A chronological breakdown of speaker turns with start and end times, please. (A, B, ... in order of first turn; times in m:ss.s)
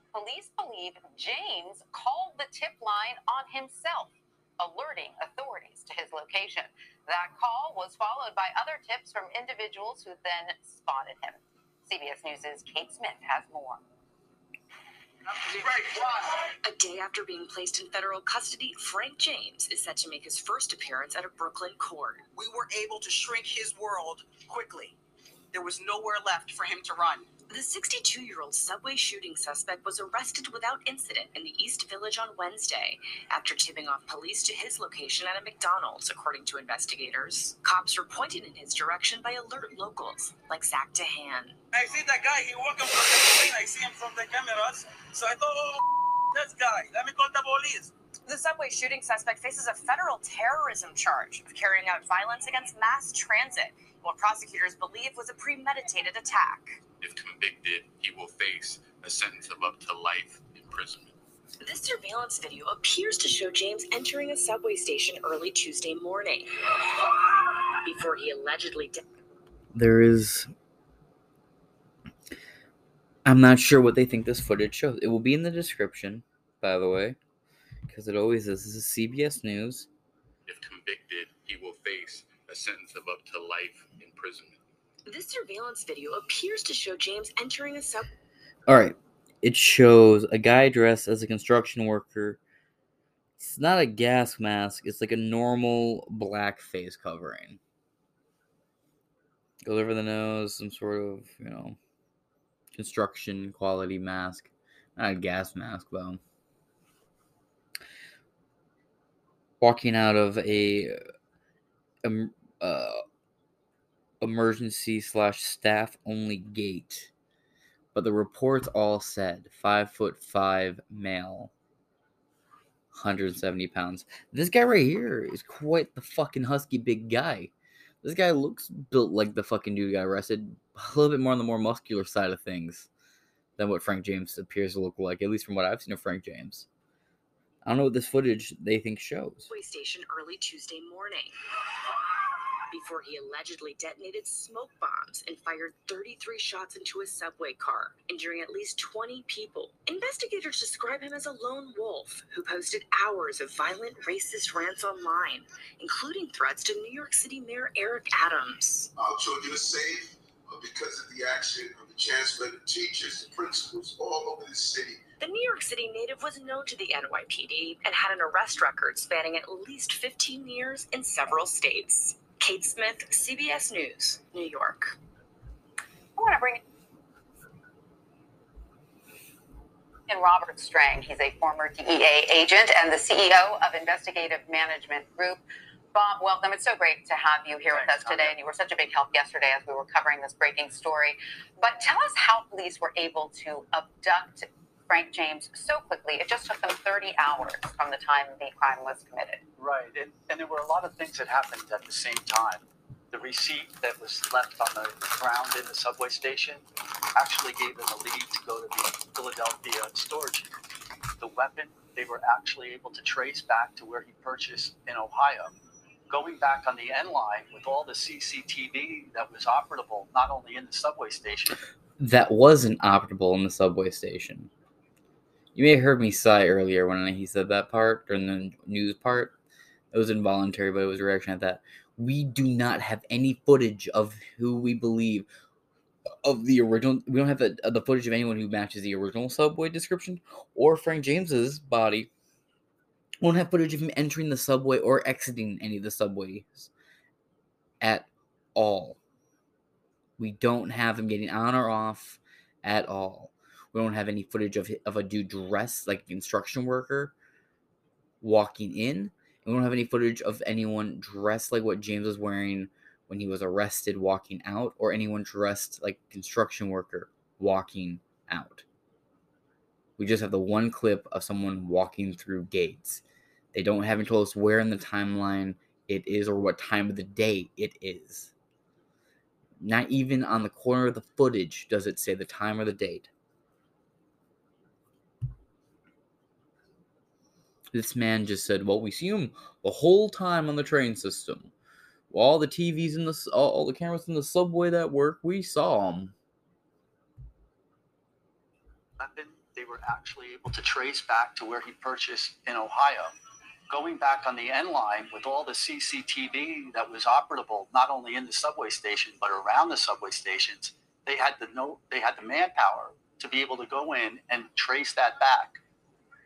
0:00.1-0:13.8 A
0:16.6-0:22.2 B
0:22.4-0:25.0 C
0:25.5-0:27.3 C
0:27.5-0:41.6 B
0:41.7-0:47.9 D
0:48.3-0:56.8 B
0:57.0-1:01.1 E
1:01.6-1:06.5 B
1:07.8-1:09.0 B
1:09.7-1:10.5 F
1:13.2-1:17.2 F
1:17.9-1:19.9 F
1:20.5-1:24.6 E
1:25.1-1:28.1 B
1:28.7-1:32.4 F
1:33.4-1:37.6 F
1:39.6-1:41.8 F
1:42.7-1:46.2 F
1:49.6-1:51.0 F
1:52.0-1:53.0 F
1:54.2-1:57.1 F
1:57.9-2:01.5 F
2:02.9-2:07.5 F
2:08.0-2:12.9 F
2:13.6-2:16.7 F
2:17.6-2:19.5 F
2:19.5-2:21.4 B
2:22.7-2:38.9 B
2:39.0-2:45.0 G
2:45.2-2:55.0 B
2:56.2-2:56.6 A
3:00.1-3:05.4 A
3:05.9-3:19.4 A
3:19.6-3:26.6 H
3:27.2-3:30.5 H
3:31.2-3:35.6 H
3:36.1-3:41.6 H
3:42.0-3:44.5 F
3:45.6-3:49.3 F
3:49.9-3:55.3 F
3:56.2-4:02.1 F
4:03.2-4:06.7 F
4:07.8-4:09.0 F
4:10.2-4:17.1 F
4:18.2-4:28.6 F
4:30.0-4:33.0 F
4:33.5-4:38.3 F
4:39.6-4:43.1 F
4:47.7-4:51.5 F
4:52.1-4:56.1 F
4:59.0-5:03.2 H
5:03.7-5:15.6 H